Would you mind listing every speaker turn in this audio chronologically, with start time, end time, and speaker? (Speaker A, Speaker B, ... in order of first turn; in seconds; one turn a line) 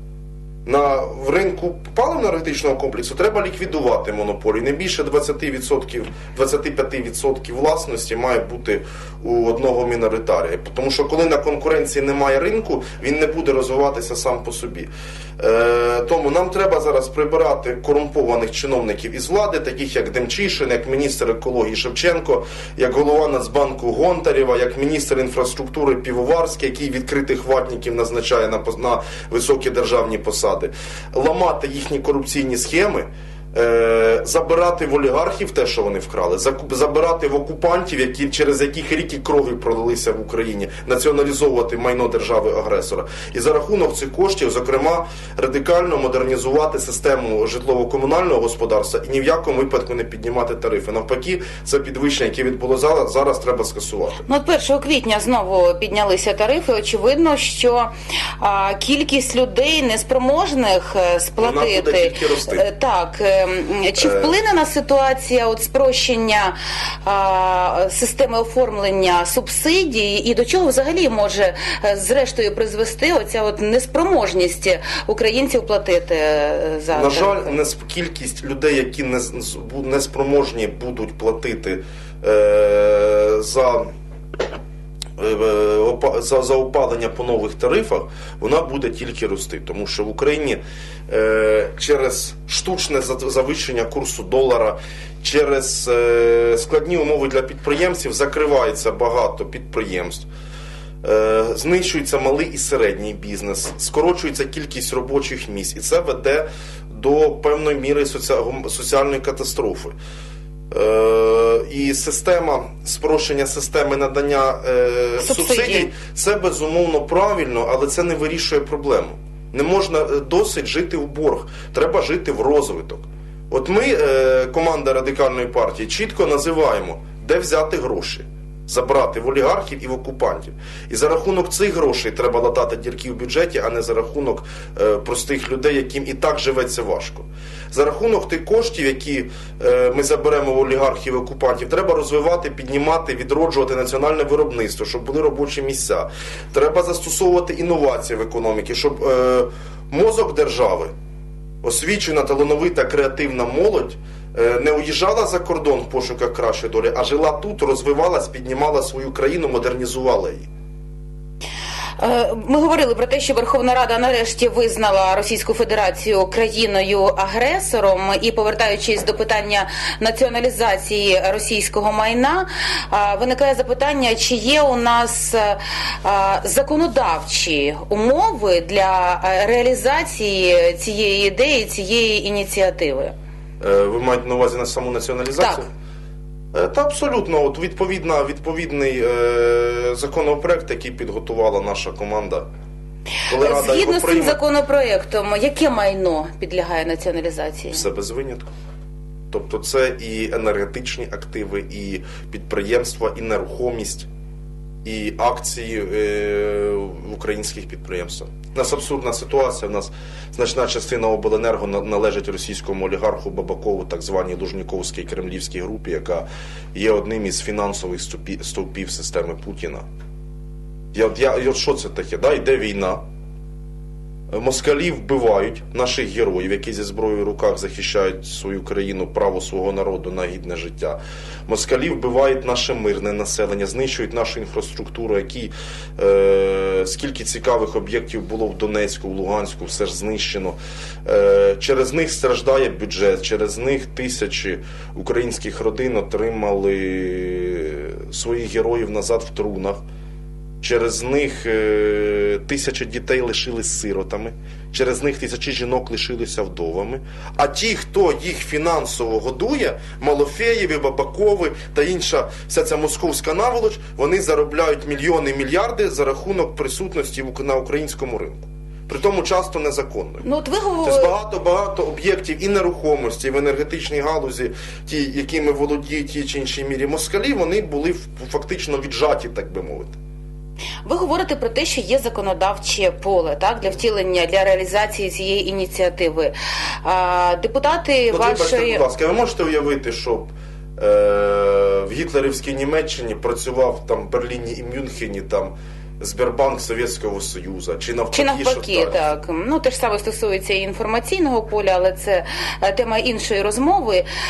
Speaker A: 0.6-54.2
Speaker B: 54.2-77.5
Speaker A: 61.4-62.6
Speaker A: 64.0-64.3
Speaker A: 76.9-83.9
Speaker A: 85.2-100.3
Speaker A: 101.0-109.9
Speaker A: 110.7-150.9
Speaker B: 115.2-115.9
Speaker A: 151.6-160.5
Speaker B: 162.0-183.1
Speaker A: 183.6-185.7
Speaker A: 186.5-192.4
Speaker A: 193.3-194.4
Speaker B: 193.3-197.8
Speaker A: 197.7-198.5
Speaker A: 199.3-204.1
Speaker A: 204.8-219.8
Speaker A: 220.9-223.0
Speaker A: 224.3-249.8
Speaker A: 250.6-270.2
Speaker B: 270.2-271.1
Speaker A: 270.8-279.9
Speaker B: 280.8-286.3
Speaker B: 286.8-288.8
Speaker A: 288.1-299.1
Speaker B: 298.1-304.0